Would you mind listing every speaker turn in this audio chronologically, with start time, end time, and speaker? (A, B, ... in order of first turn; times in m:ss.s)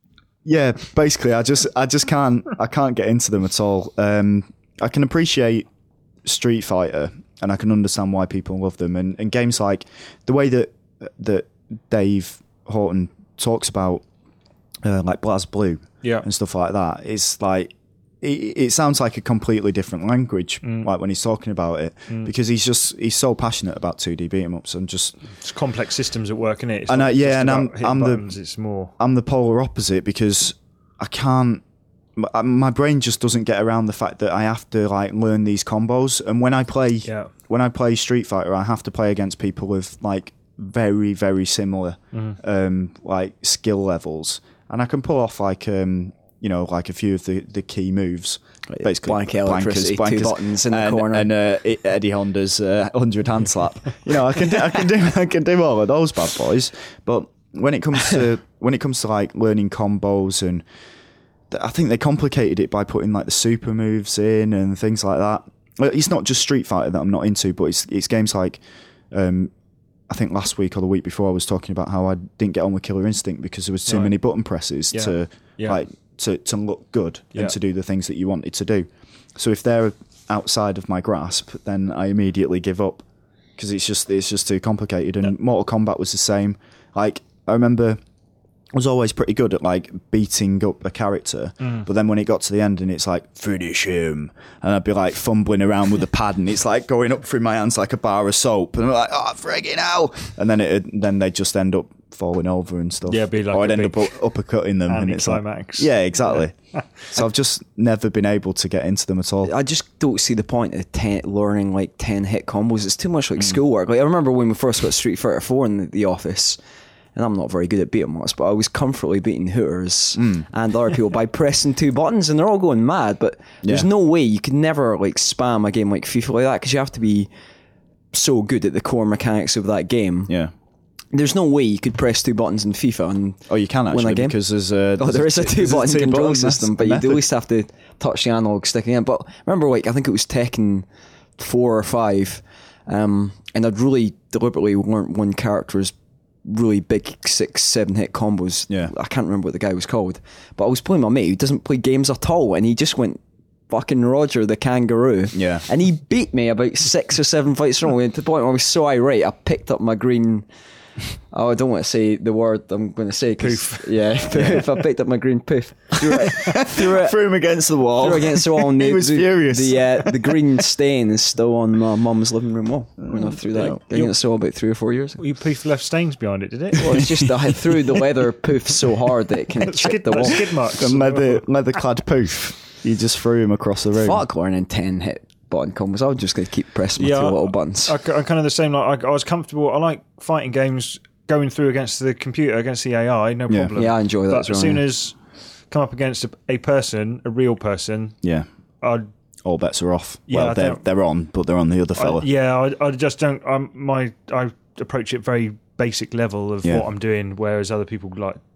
0:00.4-0:05.7 A
0:06.2-0:14.0 A
0:14.8-0:25.2 A
0:20.6-0:20.9 B
0:25.3-0:28.9 B
0:26.9-0:28.2 A
0:29.0-0:31.6 A
0:32.2-1:00.6 A
0:37.0-0:37.3 B
0:42.1-0:42.4 B
0:48.7-0:51.3 C
1:01.5-1:08.6 A
1:09.1-1:09.5 A
1:10.1-1:23.0 A
1:13.9-1:14.1 B
1:14.9-1:15.8 B
1:23.6-1:28.0 A
1:28.7-1:46.6 A
1:31.6-1:31.9 B
1:43.1-1:44.2 B
1:44.9-1:46.8 B
1:47.1-1:49.5 A
1:49.4-1:56.6 C
1:57.1-2:07.3 C
2:00.2-2:00.4 A
2:08.1-2:10.4 C
2:11.1-2:14.4 C
2:13.5-2:17.2 A
2:15.0-2:20.9 C
2:21.4-2:25.9 C
2:26.4-2:40.5 C
2:35.3-2:35.6 A
2:41.3-2:47.2 C
2:43.4-2:44.1 B
2:44.3-2:44.7 A
2:46.0-2:50.4 A
2:48.0-2:55.2 C
2:53.1-2:53.8 A
2:55.2-2:57.2 B
2:56.8-3:00.5 C
2:56.9-2:57.3 A
2:59.6-3:01.4 B
3:00.3-3:04.2 A
3:04.0-3:08.0 C
3:07.0-3:15.2 B
3:13.5-3:13.7 A
3:13.8-3:14.8 C
3:15.7-3:18.2 B
3:18.2-3:18.5 A
3:18.8-3:19.1 B
3:19.4-3:22.2 A
3:20.3-3:20.8 B
3:22.0-3:28.4 B